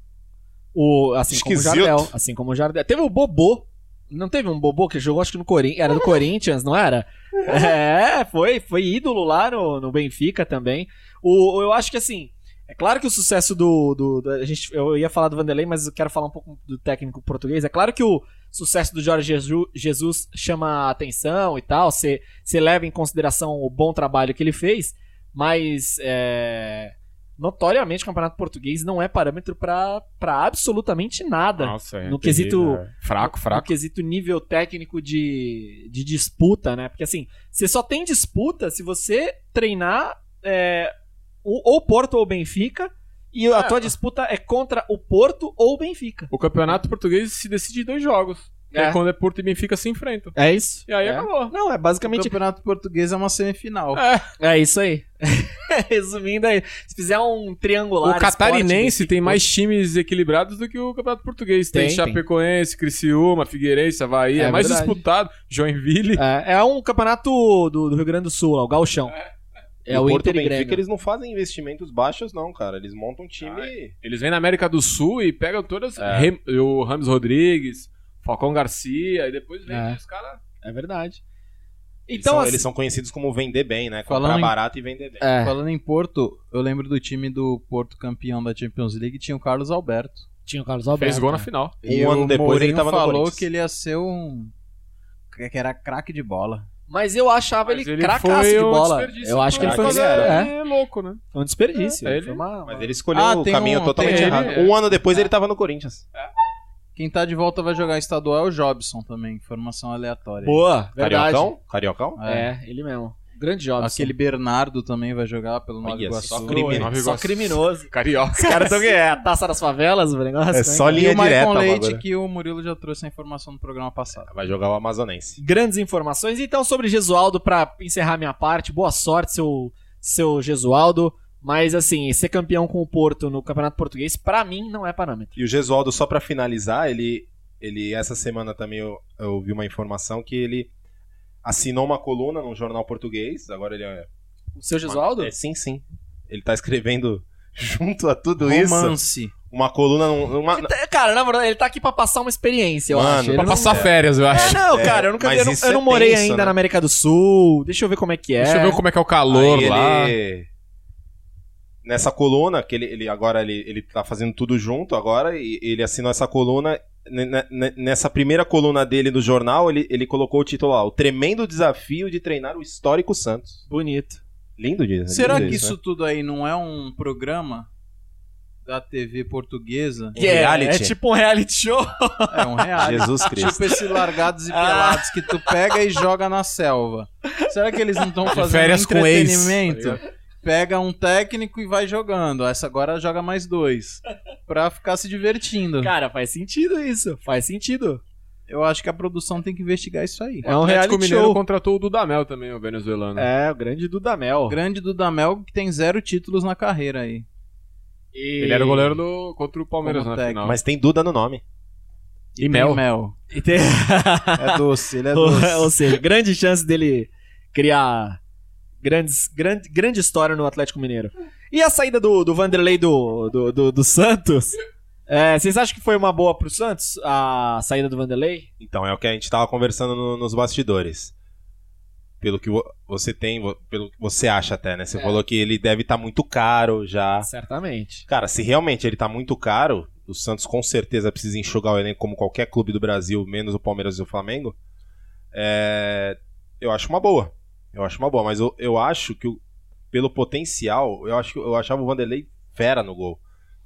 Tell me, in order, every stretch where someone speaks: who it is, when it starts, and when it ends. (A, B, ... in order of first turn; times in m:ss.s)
0:00.8-0:40.9 A
0:01.3-0:02.1 B
0:31.6-0:33.7 C
0:41.4-0:46.3 A
0:43.5-0:43.9 C
0:46.3-0:50.4 C
0:48.7-0:49.0 A
0:50.4-0:52.4 A
0:50.9-0:51.5 C
0:52.0-0:54.0 D
0:54.0-0:54.3 C
0:54.4-0:59.4 A
0:58.0-1:06.2 C
1:01.7-1:02.2 A
1:04.4-1:05.0 A
1:06.2-1:09.2 A
1:09.9-1:10.8 A
1:09.9-1:13.9 B
1:13.4-1:20.4 C
1:16.0-1:16.3 B
1:19.7-1:20.0 A
1:20.6-1:21.2 A
1:22.1-1:22.6 A
1:22.1-1:25.2 B
1:24.1-1:24.6 D
1:25.2-1:25.6 A
1:25.4-1:30.3 D
1:30.5-1:31.5 A
1:31.0-1:32.0 C
1:31.9-1:33.5 B
1:31.9-1:34.5 D
1:35.3-1:36.7 D
1:36.9-1:40.5 A
1:37.7-1:41.2 C
1:39.6-1:40.4 B
1:41.3-1:43.0 A
1:41.8-1:42.4 C
1:42.7-1:46.0 B
1:43.1-1:44.6 D
1:44.0-1:44.7 C
1:47.0-1:50.6 D
1:50.4-1:51.5 A
1:51.0-1:52.2 B
1:52.2-1:52.5 D
1:52.2-1:54.1 A
1:53.8-1:56.9 D
1:55.8-1:56.9 B
1:56.3-2:01.0 A
1:56.7-1:58.9 C
2:00.5-2:02.0 B
2:00.9-2:04.3 D
2:04.3-2:05.4 B
2:05.4-2:15.4 A
2:15.4-2:20.7 B
2:21.4-2:24.1 B
2:24.6-2:25.3 A
2:24.8-2:29.0 B
2:28.4-2:29.3 D
2:29.5-2:30.7 B
2:30.5-2:38.8 A
2:32.9-2:36.6 B
2:33.3-2:34.7 C
2:38.4-2:40.2 C
2:39.3-2:40.5 B
2:41.8-2:53.6 B
2:53.7-2:54.2 A
2:54.6-2:55.7 B
2:55.1-2:57.7 D
2:58.7-3:00.2 D
3:00.1-3:01.0 B
3:00.2-3:03.9 A
3:02.3-3:15.9 D
3:02.8-3:03.6 B
3:04.5-3:05.5 A
3:08.3-3:10.0 C
3:15.8-3:18.0 A
3:18.5-3:20.5 D
3:20.4-3:21.4 A
3:20.4-3:23.3 C
3:23.2-3:24.6 A
3:24.5-3:27.3 D
3:28.1-3:29.0 A
3:28.4-3:30.6 C
3:29.8-3:30.5 D
3:30.4-3:31.4 B
3:32.4-3:33.2 D
3:32.4-3:32.8 C
3:33.3-3:38.2 A
3:34.4-3:36.0 D
3:38.8-3:48.5 A
3:48.6-3:51.1 B
3:52.2-3:57.3 B
3:57.2-3:58.0 A
3:58.1-4:04.6 B
4:05.3-4:09.4 B
4:09.9-4:13.2 B